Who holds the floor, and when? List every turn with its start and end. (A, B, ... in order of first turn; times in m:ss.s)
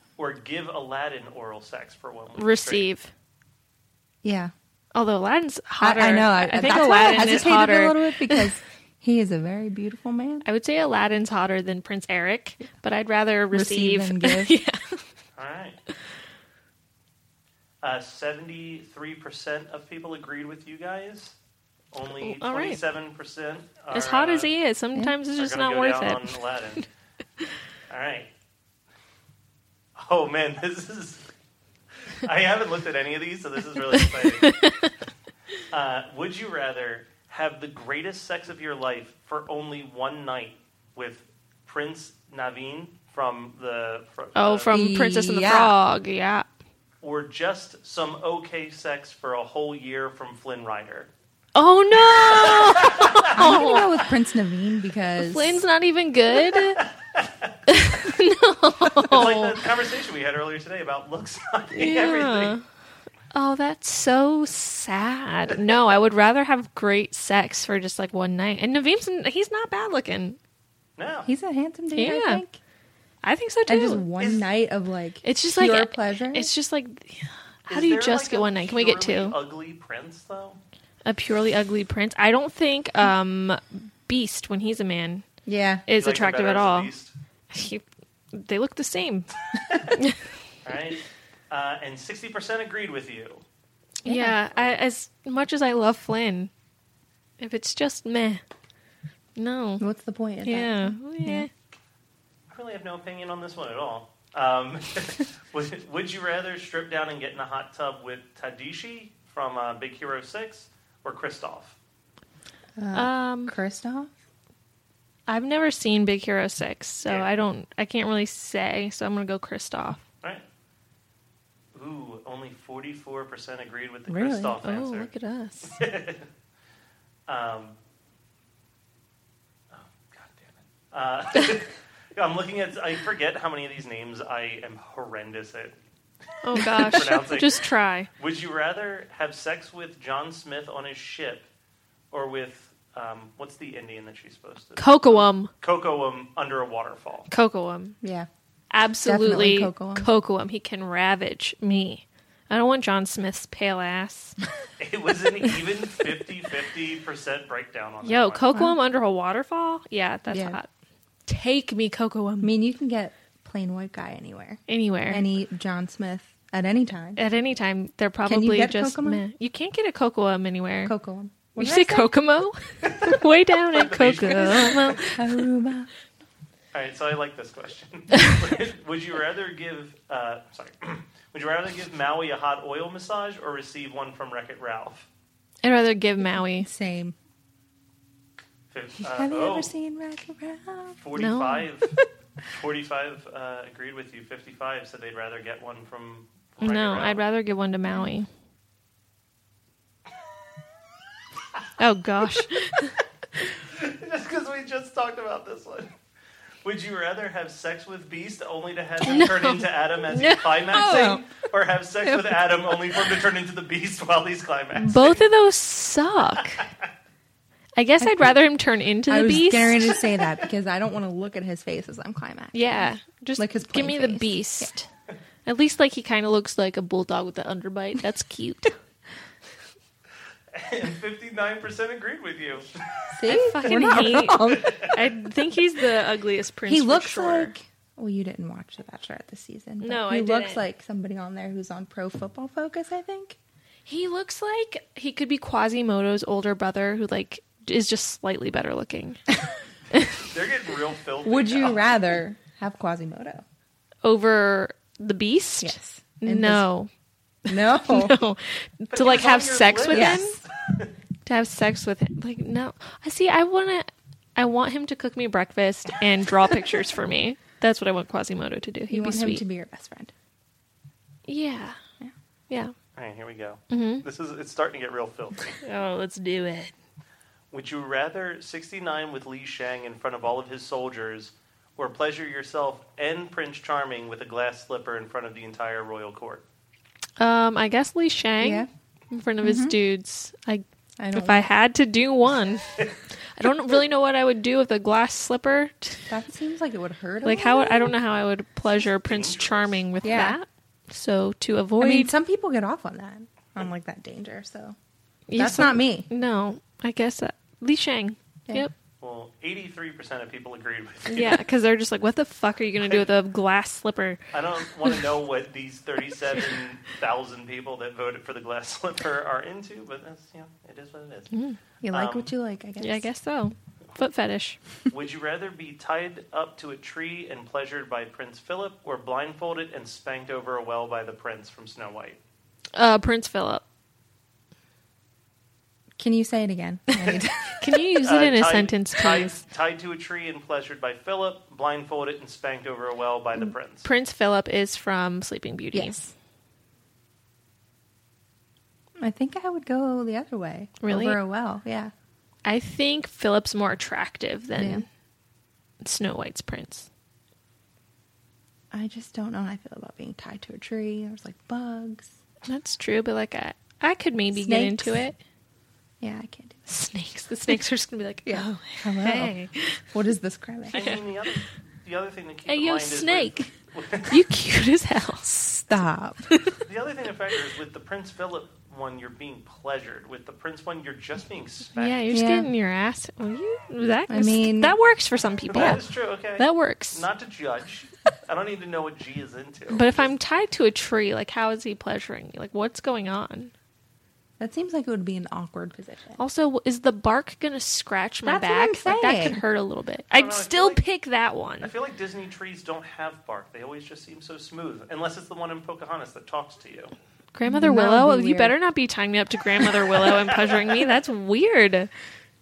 0:00.2-0:02.9 A
0:02.4-0:03.1 B
0:04.2-0:04.5 C
0:05.0-0:08.5 B
0:05.8-0:10.5 C
0:10.4-0:15.0 B
0:13.5-0:14.6 C
0:15.4-0:15.8 A
0:17.8-0:21.4 A
0:21.9-0:24.5 A
0:22.2-0:22.8 B
0:23.9-0:26.8 B
0:25.4-0:26.8 A
0:27.9-0:28.3 A
0:30.0-0:31.2 A
0:32.2-0:34.5 A
0:34.0-0:34.9 B
0:35.7-0:44.8 A
0:44.4-0:46.5 B
0:44.7-0:45.7 C
0:47.0-0:51.1 A
0:51.6-0:53.9 B
0:52.0-0:53.3 A
0:53.3-0:55.6 C
0:55.2-0:56.8 B
0:56.6-0:57.5 A
0:57.7-0:59.6 B
0:59.0-1:02.6 A
1:01.8-1:02.6 B
1:03.3-1:10.4 B
1:11.0-1:11.3 A
1:11.2-1:12.6 C
1:12.0-1:12.4 B
1:13.2-1:14.1 B
1:13.7-1:16.5 C
1:14.2-1:14.5 A
1:15.2-1:19.4 B
1:17.7-1:20.6 A
1:21.0-1:25.2 B
1:25.4-1:25.8 C
1:25.9-1:26.9 B
1:26.0-1:27.1 A
1:27.5-1:29.3 B
1:29.6-1:30.0 A
1:30.0-1:30.3 B
1:30.6-1:33.4 A
1:34.0-1:36.5 B
1:34.0-1:34.4 C
1:37.4-1:38.4 B
1:39.4-1:39.8 B
1:39.8-1:41.5 C
1:40.4-1:41.5 B
1:42.5-1:51.8 A
1:52.8-1:54.1 C
1:52.9-1:53.6 B
1:55.3-2:00.0 B
2:01.7-2:05.1 A
2:04.1-2:04.6 C
2:04.6-2:05.8 B
2:05.8-2:06.3 A
2:07.3-2:07.8 A
2:09.7-2:15.8 A
2:16.4-2:18.1 B
2:16.5-2:21.5 A
2:22.1-2:27.3 A
2:24.8-2:25.5 B
2:27.3-2:28.0 B
2:28.0-2:28.3 C
2:28.7-2:34.4 B
2:29.0-2:30.1 C
2:34.8-2:38.5 A
2:38.0-2:40.7 B
2:40.3-2:40.6 C
2:41.3-2:42.6 B
2:42.4-2:47.2 C
2:44.7-2:45.3 B
2:47.2-2:51.0 B
2:48.2-2:49.2 C
2:50.8-2:52.1 C
2:51.6-2:55.4 B
2:52.8-2:55.0 A
2:55.1-2:55.9 C
2:56.7-3:05.1 A
3:05.6-3:06.7 B
3:06.2-3:07.2 C
3:08.7-3:09.7 A
3:09.1-3:11.0 C
3:11.0-3:11.9 A
3:11.2-3:11.7 B
3:12.5-3:17.2 A
3:16.6-3:18.3 B
3:21.8-3:23.0 B
3:23.5-3:25.9 A
3:26.6-3:35.2 A
3:29.0-3:31.2 B
3:30.7-3:31.2 C
3:32.1-3:32.4 C
3:34.8-3:36.7 B
3:37.8-3:40.0 B
3:38.0-3:38.4 C
3:39.1-3:44.7 C
3:42.5-3:44.9 B
3:45.5-3:48.7 B
3:50.5-3:54.9 A
3:53.1-3:54.9 C
3:53.3-3:57.5 B
3:56.7-4:03.4 C
3:59.8-4:00.6 B
4:03.9-4:09.2 B
4:10.2-4:11.9 A
4:11.2-4:13.4 C
4:14.0-4:16.9 B
4:15.6-4:16.7 C
4:17.5-4:18.2 C
4:17.5-4:20.4 B
4:18.9-4:20.9 A
4:19.9-4:20.4 C
4:21.3-4:29.4 B
4:28.9-4:30.1 C
4:31.3-4:31.8 B
4:32.5-4:32.8 B
4:33.0-4:35.6 A
4:33.7-4:34.0 B
4:35.6-4:36.7 B
4:37.5-4:46.4 A
4:47.2-4:56.1 B
4:48.4-4:48.7 C
4:49.4-4:49.8 C
4:51.0-4:51.5 C
4:56.1-4:58.0 C
4:57.2-5:02.1 B
4:58.7-5:00.1 A
5:00.0-5:00.4 C
5:01.8-5:04.8 C
5:05.3-5:08.7 B
5:05.4-5:06.1 C
5:09.0-5:11.4 A
5:11.1-5:14.2 B
5:12.8-5:13.1 A
5:14.3-5:21.3 A
5:21.3-5:21.6 B
5:21.8-5:23.1 C
5:21.9-5:22.3 A
5:22.8-5:24.6 B
5:24.9-5:32.2 A
5:32.8-5:33.6 B
5:36.0-5:37.3 C
5:37.0-5:39.4 B
5:38.0-5:43.9 A
5:43.8-5:46.1 B
5:45.7-5:46.1 C
5:49.0-5:51.9 C
5:50.8-5:51.2 B
5:52.4-5:54.9 B
5:54.6-5:54.8 C
5:55.8-5:56.9 B
5:58.7-6:02.1 C
6:02.5-6:05.2 B
6:04.3-6:05.0 C
6:06.0-6:06.7 C
6:06.7-6:09.8 B
6:08.3-6:10.8 C
6:10.7-6:11.4 B
6:10.7-6:14.2 A
6:12.5-6:13.5 B
6:14.1-6:15.4 B
6:15.2-6:16.3 C
6:16.6-6:22.1 A
6:21.8-6:27.1 B
6:22.1-6:22.5 C
6:24.1-6:24.8 C
6:25.5-6:30.1 A
6:29.7-6:33.5 B
6:34.4-6:36.2 C
6:36.2-6:41.7 B
6:38.2-6:39.4 C
6:40.1-6:40.8 A
6:41.6-6:46.9 A
6:47.3-6:51.9 B
6:47.5-6:48.6 C
6:50.0-6:50.8 A